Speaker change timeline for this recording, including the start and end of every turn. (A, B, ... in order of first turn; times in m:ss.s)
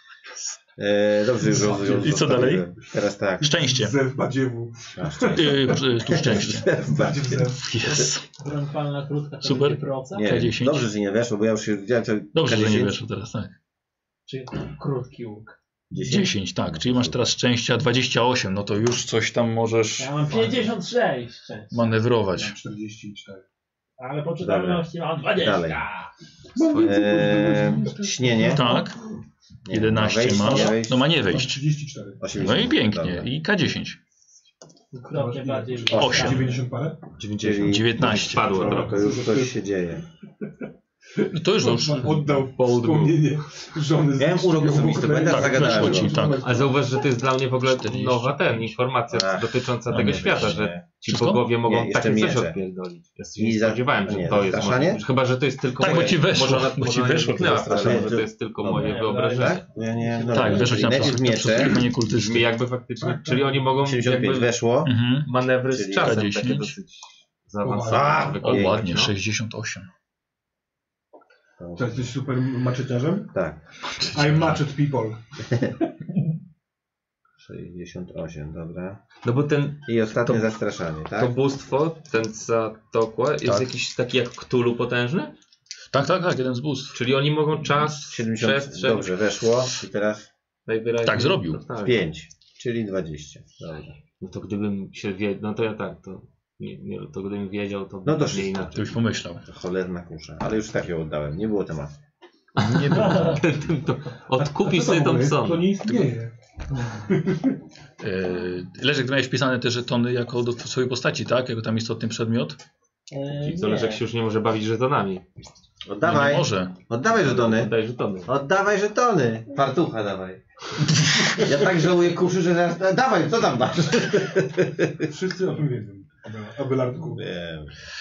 0:00.8-0:03.5 A
0:01.5-0:02.7 B
0:03.4-0:04.0 B
0:03.5-0:05.8 C
0:05.0-0:08.1 A
0:05.3-0:06.8 B
0:06.8-0:07.7 C
0:07.6-0:08.4 B
0:08.4-0:10.3 D
0:09.4-0:10.9 B
0:10.1-0:13.0 A
0:12.3-0:13.5 B
0:14.3-0:15.6 D
0:15.9-0:17.3 A
0:16.0-0:20.7 B
0:20.0-0:21.9 D
0:21.7-0:22.6 B
0:22.3-0:23.4 C
0:24.0-0:26.1 D
0:24.4-0:25.8 A
0:26.6-0:28.9 C
0:26.8-0:28.8 A
0:28.4-0:29.0 B
0:29.7-0:31.1 A
0:29.7-0:31.6 B
0:30.3-0:30.8 C
0:31.3-0:32.2 C
0:32.2-0:33.3 A
0:32.3-0:34.0 B
0:34.9-0:36.7 D
0:35.1-0:37.0 C
0:35.9-0:36.4 A
0:36.0-0:36.5 B
0:37.2-0:39.0 E
0:37.3-0:40.0 A
0:37.4-0:38.6 B
0:38.5-0:39.6 C
0:41.2-0:46.9 C
0:41.3-0:42.5 B
0:42.5-0:43.3 E
0:44.2-0:46.2 A
0:45.2-0:46.5 B
0:46.4-0:59.6 E
0:47.6-0:48.8 B
0:49.1-0:50.8 A
0:49.9-0:51.4 B
0:51.6-0:52.6 A
0:53.4-0:55.0 A
0:55.8-0:58.1 B
0:55.9-0:56.2 A
0:57.4-1:01.9 A
0:58.7-1:00.9 D
1:00.3-1:02.5 B
1:02.1-1:04.5 E
1:03.0-1:03.7 C
1:03.8-1:04.9 A
1:04.8-1:05.3 B
1:05.2-1:09.1 E
1:05.7-1:06.2 A
1:06.0-1:06.7 B
1:07.6-1:08.4 C
1:08.4-1:08.8 A
1:08.4-1:09.9 B
1:11.6-1:12.1 A
1:11.8-1:13.3 C
1:13.3-1:13.6 A
1:13.8-1:14.6 B
1:14.1-1:15.2 C
1:17.4-1:19.0 A
1:19.2-1:20.5 E
1:19.8-1:21.4 A
1:21.1-1:25.3 E
1:23.4-1:23.7 B
1:25.9-1:27.0 B
1:26.9-1:29.2 E
1:27.6-1:28.0 B
1:28.1-1:30.3 A
1:30.7-1:32.0 E
1:31.0-1:31.6 B
1:31.8-1:33.7 A
1:33.6-1:38.9 E
1:38.0-1:38.8 A
1:38.7-1:39.4 B
1:39.4-1:41.9 A
1:42.6-1:46.1 E
1:42.6-1:43.4 B
1:42.9-1:43.4 D
1:44.4-1:46.3 C
1:47.1-1:47.6 C
1:48.0-1:52.6 B
1:53.1-1:54.0 D
1:53.3-1:55.2 E
1:55.9-1:57.7 A
1:56.0-1:56.8 B
1:57.2-1:58.3 E
1:58.2-2:00.4 A
2:00.9-2:01.5 B
2:01.4-2:05.0 A
2:05.1-2:07.2 C
2:07.1-2:07.7 A